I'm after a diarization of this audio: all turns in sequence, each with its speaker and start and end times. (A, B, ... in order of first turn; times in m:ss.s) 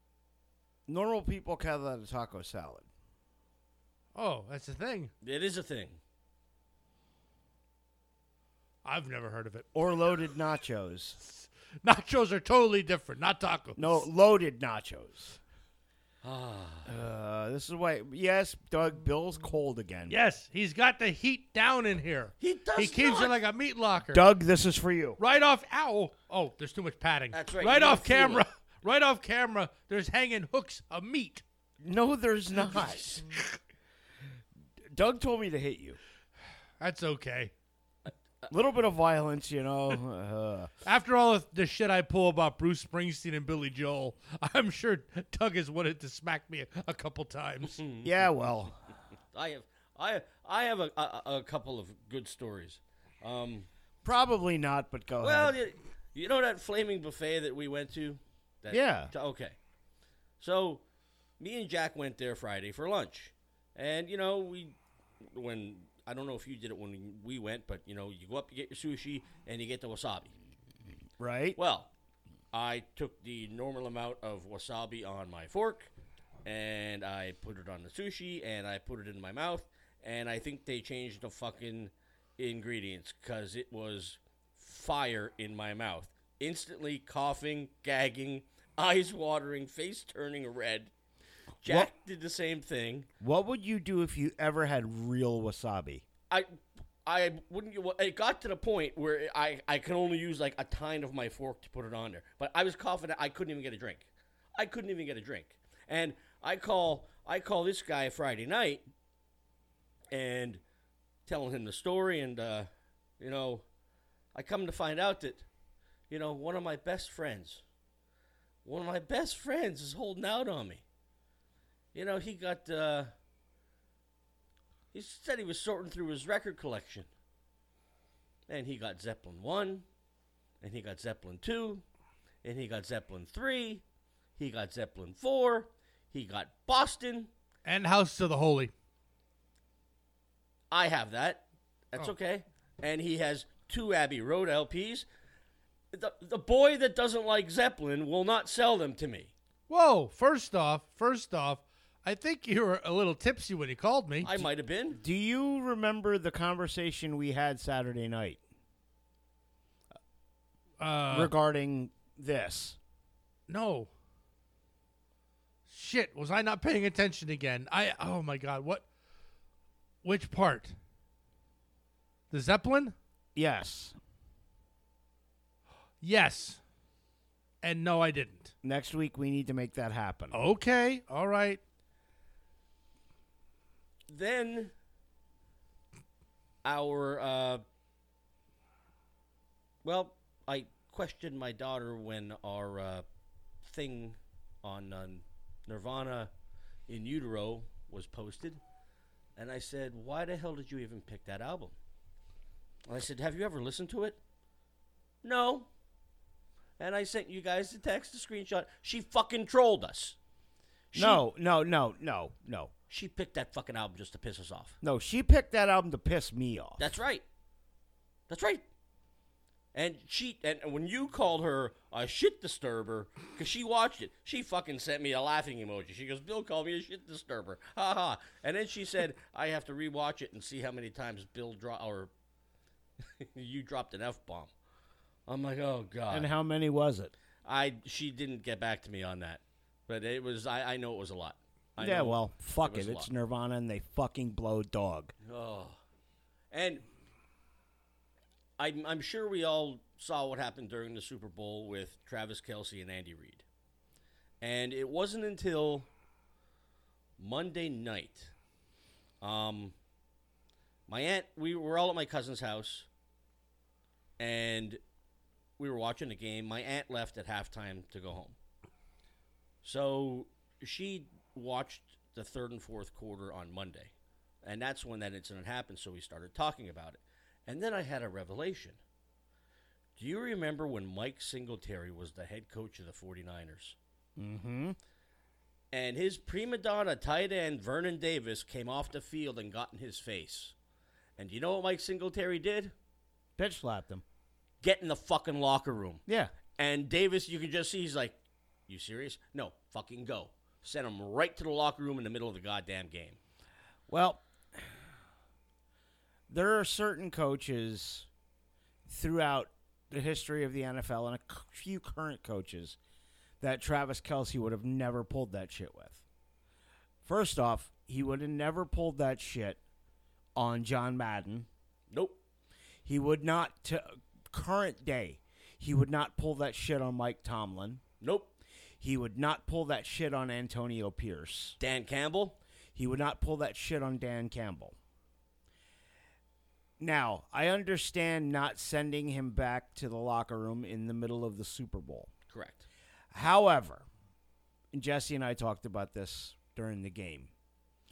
0:00.9-0:02.9 A
0:04.1-0:05.1 B
0:05.2-0:06.0 C
0:08.8-0:09.7 B
0:09.7-0:11.2 A
0:11.4-0:14.0 B
0:13.8-0:15.4 A
0:16.2-0:16.9 C
0:16.8-0:20.2 A
0:20.1-0:24.2 B
0:22.4-0:23.4 C
0:24.1-0:25.2 A
0:25.2-0:31.4 B
0:27.3-0:28.4 C
0:31.8-0:33.1 A
0:33.1-0:33.6 B
0:34.9-0:36.0 A
0:36.8-0:37.5 B
0:38.5-0:40.7 A
0:40.8-0:47.8 B
0:47.6-0:48.1 C
0:48.0-0:48.8 A
0:49.3-0:53.7 C
0:54.0-0:55.6 A
0:55.2-0:59.6 C
0:58.7-0:59.1 A
1:00.4-1:00.8 C
1:01.4-1:10.3 C
1:11.2-1:11.6 A
1:11.6-1:11.9 C
1:12.5-1:15.9 C
1:16.4-1:30.9 C
1:31.6-1:33.1 C
1:31.6-1:31.9 A
1:33.2-1:36.0 A
1:37.0-1:48.8 C
1:50.1-1:50.6 C
1:51.2-1:52.7 C
1:53.2-1:53.6 C
1:54.3-1:55.4 C
1:56.1-1:57.6 C
1:58.6-2:00.8 C
2:01.9-2:03.1 C
2:04.9-2:07.1 C
2:08.5-2:09.8 C
2:10.6-2:11.8 C
2:12.4-2:13.8 C
2:14.4-2:17.3 C
2:17.6-2:18.7 B
2:20.7-2:25.0 C
2:25.9-2:29.3 C
2:29.7-2:34.5 B
2:34.2-2:35.0 C
2:34.9-2:38.4 A
2:40.8-2:41.3 B
2:41.1-2:42.8 A
2:43.5-2:43.9 B
2:45.7-2:48.8 B
2:50.0-2:50.7 B
2:52.3-2:52.9 B
2:53.3-2:54.0 A
2:56.0-2:56.6 B
2:57.6-2:58.5 B
2:58.6-3:00.4 A
3:00.3-3:01.6 B
3:04.1-3:04.7 C
3:06.6-3:07.6 C
3:09.8-3:13.0 C
3:13.6-3:16.3 C
3:16.9-3:18.6 C
3:19.4-3:21.8 C
3:22.9-3:24.2 C
3:25.2-3:25.7 C
3:26.8-3:30.2 C
3:30.9-3:31.2 C
3:30.9-3:32.7 A
3:32.9-3:34.8 C
3:34.8-3:36.8 A
3:36.8-3:37.2 C
3:38.3-3:38.6 C
3:39.7-3:52.1 C
3:53.1-3:54.5 C
3:55.3-3:56.3 C
3:56.1-3:57.1 A
3:57.4-4:03.1 C
4:01.8-4:05.1 A
4:05.2-4:05.8 C
4:06.5-4:06.8 C
4:08.6-4:13.4 C
4:14.4-4:15.9 C
4:17.2-4:18.3 C
4:19.2-4:19.7 C
4:20.9-4:22.9 C
4:24.2-4:24.8 C
4:25.6-4:28.4 C
4:29.6-4:33.9 C
4:34.4-4:38.8 C
4:40.0-4:43.8 C
4:44.2-4:44.8 A
4:45.7-4:50.5 C
4:51.2-4:52.7 C
4:53.4-4:54.0 A
4:54.6-4:56.0 C
4:56.1-4:56.3 A
4:56.6-5:03.2 C
5:03.9-5:04.6 A
5:06.3-5:08.1 A
5:08.9-5:12.8 A
5:13.4-5:16.0 A
5:17.0-5:19.6 A
5:20.4-5:21.5 A
5:21.9-5:22.2 C
5:22.8-5:27.8 A
5:28.0-5:28.3 C
5:28.8-5:31.6 A
5:31.6-5:32.4 C
5:32.7-5:34.7 A
5:36.8-5:42.1 A
5:42.3-5:42.7 C
5:43.1-5:43.8 A
5:44.7-5:47.3 A